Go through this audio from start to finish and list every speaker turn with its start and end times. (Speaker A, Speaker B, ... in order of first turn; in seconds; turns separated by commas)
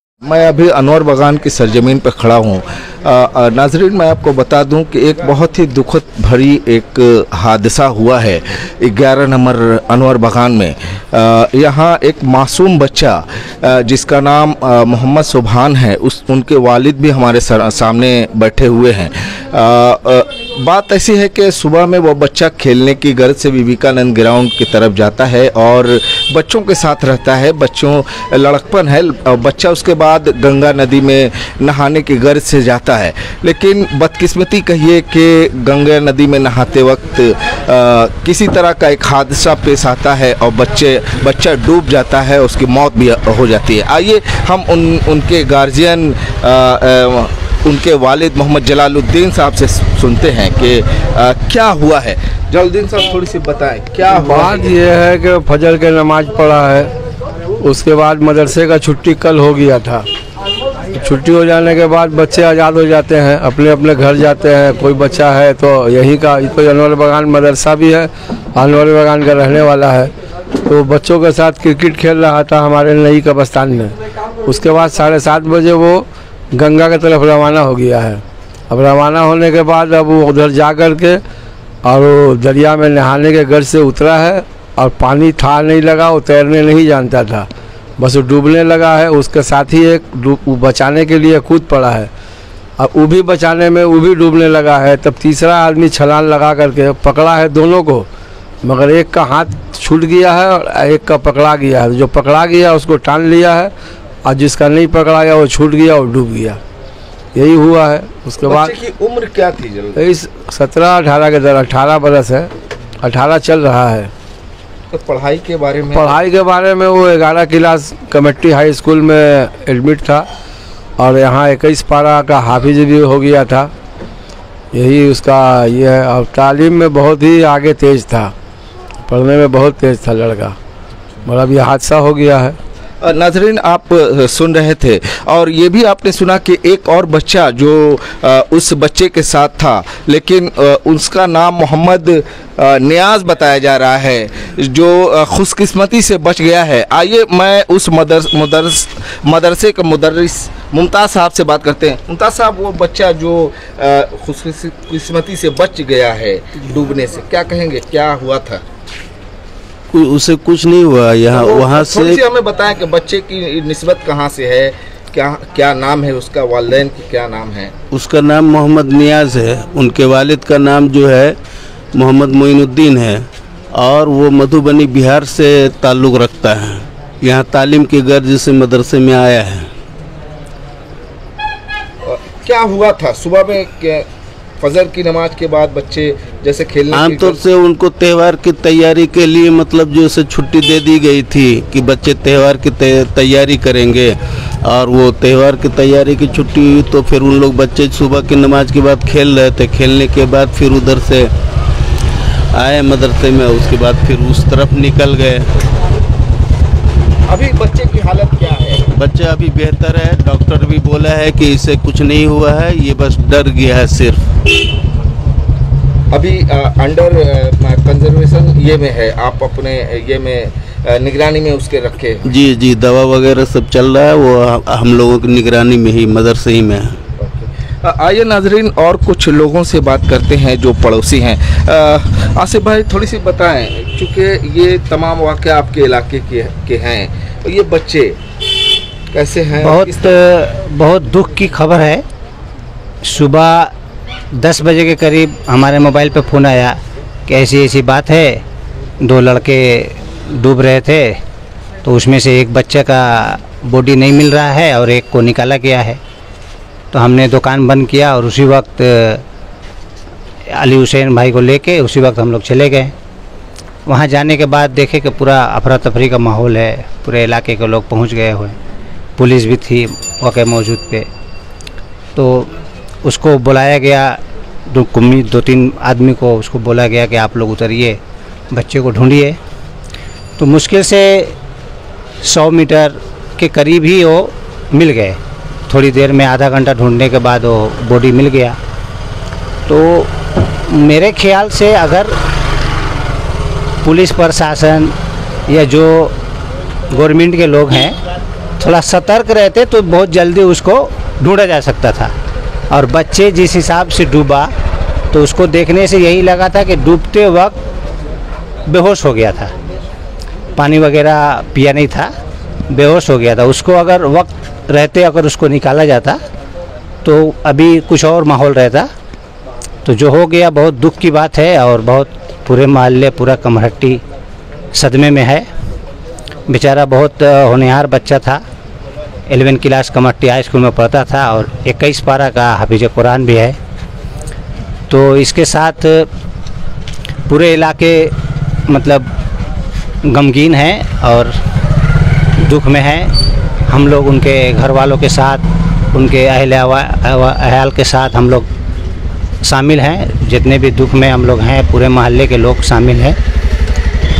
Speaker A: 0.2-54.8, Speaker B: 54.1-56.9, Speaker B: 57.6-60.0, Speaker B: 60.9-70.1, Speaker B: 70.7-73.9, Speaker B: 74.5-81.2, Speaker B: 81.8-87.5, Speaker B: 88.0-92.1, Speaker B: 92.8-98.0, Speaker B: 98.6-103.7, Speaker B: 104.2-106.6, Speaker B: 107.3-108.7, Speaker A: 108.4-110.0, Speaker B: 110.0-112.5, Speaker B: 113.0-114.1, Speaker A: 114.9-116.2, Speaker B: 115.9-120.3, Speaker B: 121.0-123.7, Speaker B: 124.7-128.3, Speaker B: 129.1-130.6, Speaker B: 131.2-132.6, Speaker A: 133.0-158.6, Speaker C: 159.9-162.2, Speaker A: 161.3-167.7, Speaker C: 167.9-171.3, Speaker C: 171.9-179.7, Speaker A: 182.0-184.1, Speaker A: 184.6-187.4, Speaker C: 186.9-201.3, Speaker C: 202.5-205.5, Speaker A: 207.3-208.8, Speaker C: 208.9-214.3, Speaker A: 216.1-222.3, Speaker C: 222.2-227.0, Speaker A: 227.2-238.2, Speaker A: 239.1-240.2, Speaker D: 239.6-242.0, Speaker D: 243.0-243.7, Speaker D: 244.3-248.4, Speaker D: 249.0-251.2, Speaker D: 251.8-256.0, Speaker D: 256.9-259.2, Speaker D: 260.5-262.9, Speaker D: 263.9-268.5, Speaker D: 269.2-271.1, Speaker D: 272.1-272.5, Speaker D: 273.0-274.2, Speaker D: 274.7-278.0, Speaker D: 278.5-279.4, Speaker D: 280.4-281.3, Speaker D: 282.2-285.2, Speaker D: 285.7-288.6, Speaker D: 289.7-292.1, Speaker D: 293.8-294.9, Speaker D: 295.5-296.1, Speaker D: 296.9-297.9, Speaker D: 298.6-302.1, Speaker D: 302.7-304.5, Speaker D: 305.1-307.6, Speaker D: 308.7-309.5, Speaker D: 310.6-312.1, Speaker D: 312.7-316.2, Speaker D: 317.0-318.9, Speaker D: 319.8-324.0, Speaker D: 324.7-325.5, Speaker D: 326.5-328.4, Speaker D: 329.3-333.6, Speaker D: 334.9-336.1, Speaker D: 337.3-338.1, Speaker D: 338.7-339.1, Speaker D: 340.0-341.3, Speaker D: 342.4-343.1, Speaker D: 343.7-348.5, Speaker D: 349.4-353.1